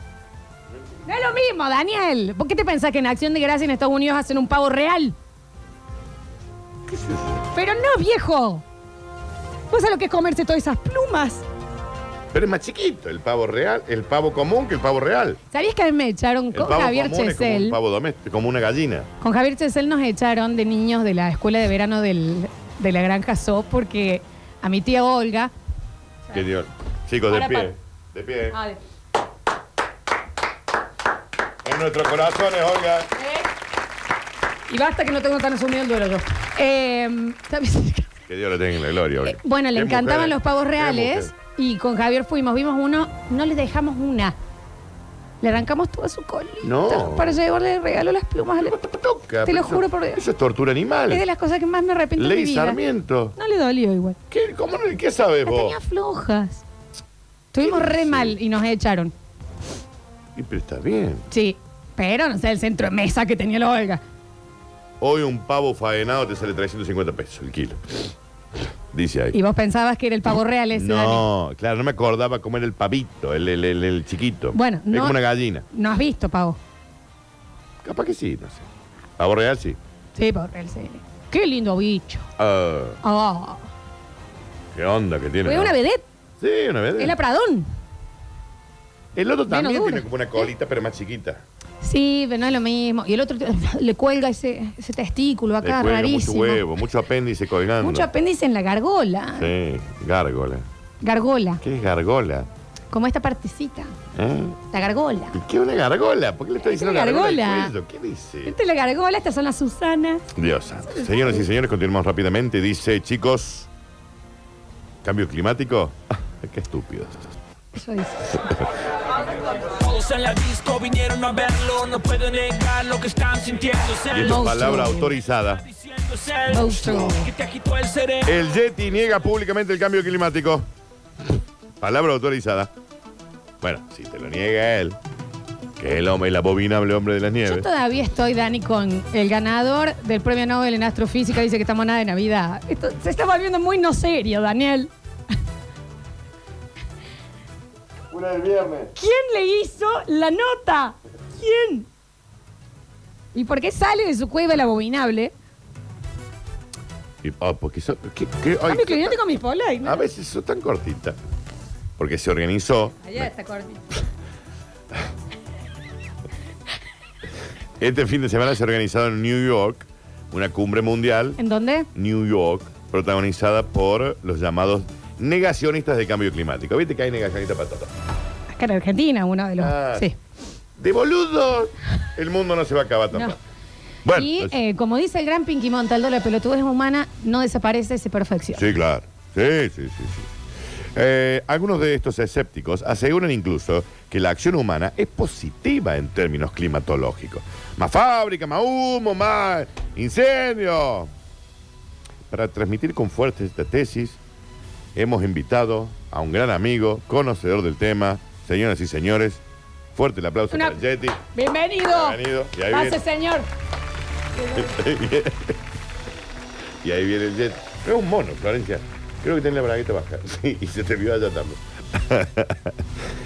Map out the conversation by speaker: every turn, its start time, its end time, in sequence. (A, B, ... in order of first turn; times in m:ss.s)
0:01.1-0:05.2 A
0:06.9-0:07.4 B
0:07.5-0:08.6 A
0:09.7-0:11.4 A
0:12.3-0:15.4 B
0:15.5-0:17.8 A
0:16.5-0:19.1 B
0:19.2-0:25.5 A
0:26.3-0:28.6 B
0:27.3-0:27.7 A
0:28.5-0:28.8 A
0:31.6-0:33.1 B
0:33.2-0:33.5 A
0:34.7-0:38.1 A
0:38.3-0:41.3 B
0:39.2-0:44.4 A
0:45.4-0:48.8 A
0:46.6-0:47.4 B
0:48.6-0:51.2 B
0:49.5-0:50.2 A
0:51.1-0:52.8 A
0:52.2-0:53.3 B
0:53.4-0:54.2 A
0:54.3-0:55.8 B
0:55.5-0:56.6 A
0:57.5-0:59.1 A
0:57.6-0:58.4 B
1:00.4-1:01.2 B
1:01.3-1:04.0 A
1:05.0-1:09.4 B
1:09.3-1:11.3 A
1:10.7-1:15.7 B
1:14.5-1:15.2 A
1:15.7-1:16.6 A
1:17.8-1:19.8 B
1:20.2-1:22.3 A
1:22.4-1:23.0 B
1:23.0-1:23.7 A
1:24.7-1:25.8 B
1:25.4-1:26.1 A
1:26.4-1:27.2 B
1:27.0-1:27.7 A
1:29.2-1:31.4 B
1:29.5-1:30.1 A
1:31.8-1:36.6 A
1:35.6-1:38.1 B
1:37.8-1:39.5 A
1:39.4-1:40.7 B
1:41.0-1:41.6 A
1:41.6-1:42.5 B
1:42.9-1:44.0 A
1:44.2-1:44.6 B
1:44.7-1:45.4 A
1:45.3-1:48.6 B
1:46.6-1:47.7 A
1:48.4-1:50.2 A
1:50.4-1:53.7 B
1:50.9-1:51.4 A
1:55.0-1:57.4 B
1:57.7-1:58.4 A
1:59.6-2:04.9 C
2:04.1-2:05.6 B
2:04.2-2:05.2 A
2:05.7-2:08.4 C
2:06.5-2:07.3 A
2:08.2-2:10.7 B
2:11.8-2:12.7 B
2:13.6-2:15.0 B
2:15.8-2:17.7 B
2:17.4-2:24.9 A
2:28.1-2:28.9 B
2:29.0-2:31.9 A
2:33.3-2:35.3 A
2:37.2-2:39.2 B
2:38.7-2:40.0 A
2:39.8-2:41.2 B
2:42.0-2:43.2 B
2:43.0-2:44.0 A
2:47.8-2:51.4 B
2:51.4-2:51.9 A
2:52.0-2:57.9 B
2:58.5-3:00.2 A
2:59.6-3:00.1 B
3:00.8-3:03.4 B
3:04.0-3:04.6 B
3:04.1-3:08.7 A
3:08.6-3:10.3 B
3:10.9-3:21.1 B
3:22.3-3:24.2 B
3:25.0-3:29.4 B
3:29.9-3:31.2 B
3:30.5-3:33.5 A
3:31.8-3:33.0 B
3:34.5-3:35.6 B
3:36.8-3:42.8 B